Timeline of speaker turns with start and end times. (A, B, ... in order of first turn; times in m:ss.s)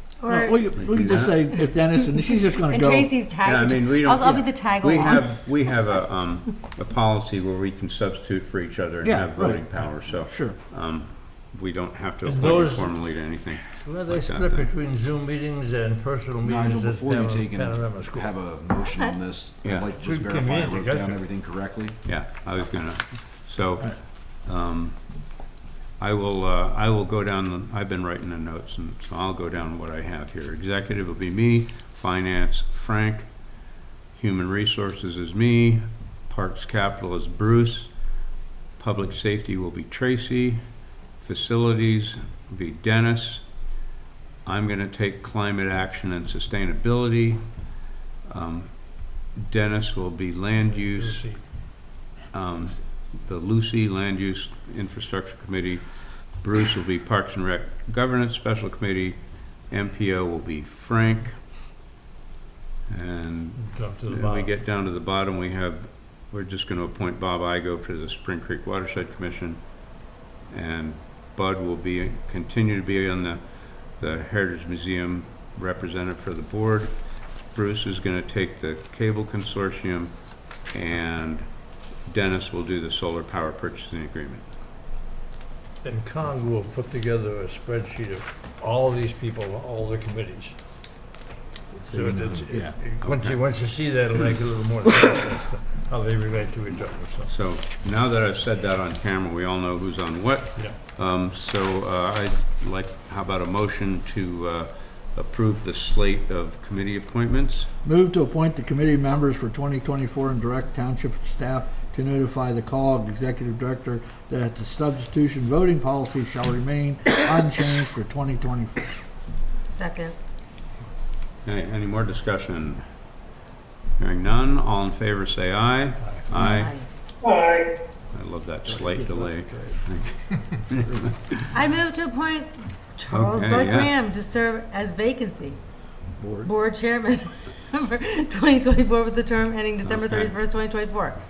0:00.2-0:00.7 A
0:00.3-0:03.1 B
0:00.8-0:01.4 C
0:02.7-0:05.5 A
0:03.4-0:14.7 C
0:09.0-0:10.6 B
0:12.2-0:13.1 D
0:13.8-0:18.4 D
0:16.4-0:22.0 E
0:19.6-0:19.9 C
0:19.9-0:21.2 D
0:22.0-0:25.0 C
0:26.0-0:33.3 C
0:34.1-0:37.9 C
0:38.8-0:40.6 C
0:41.2-0:43.5 C
0:44.4-0:47.4 C
0:48.2-0:51.2 C
0:50.6-0:51.4 D
0:52.3-0:55.8 C
0:56.3-0:59.2 C
0:59.7-1:01.4 C
1:02.9-1:09.6 C
1:03.6-1:04.5 D
1:10.5-1:13.4 C
1:14.0-1:16.9 C
1:17.5-1:20.2 C
1:20.7-1:21.4 C
1:22.0-1:24.4 C
1:25.8-1:30.5 D
1:31.8-1:32.8 B
1:31.8-1:37.3 D
1:33.0-1:33.4 C
1:37.3-1:47.7 C
1:47.8-1:58.9 B
1:59.6-2:00.2 A
2:01.4-2:02.8 C
2:04.0-2:06.7 C
2:06.5-2:06.9 A
2:08.1-2:11.3 C
2:08.7-2:09.9 B
2:10.7-2:11.1 B
2:11.5-2:15.6 A
2:13.1-2:13.9 C
2:16.2-2:16.5 B
2:16.4-2:21.2 A
2:19.8-2:20.3 C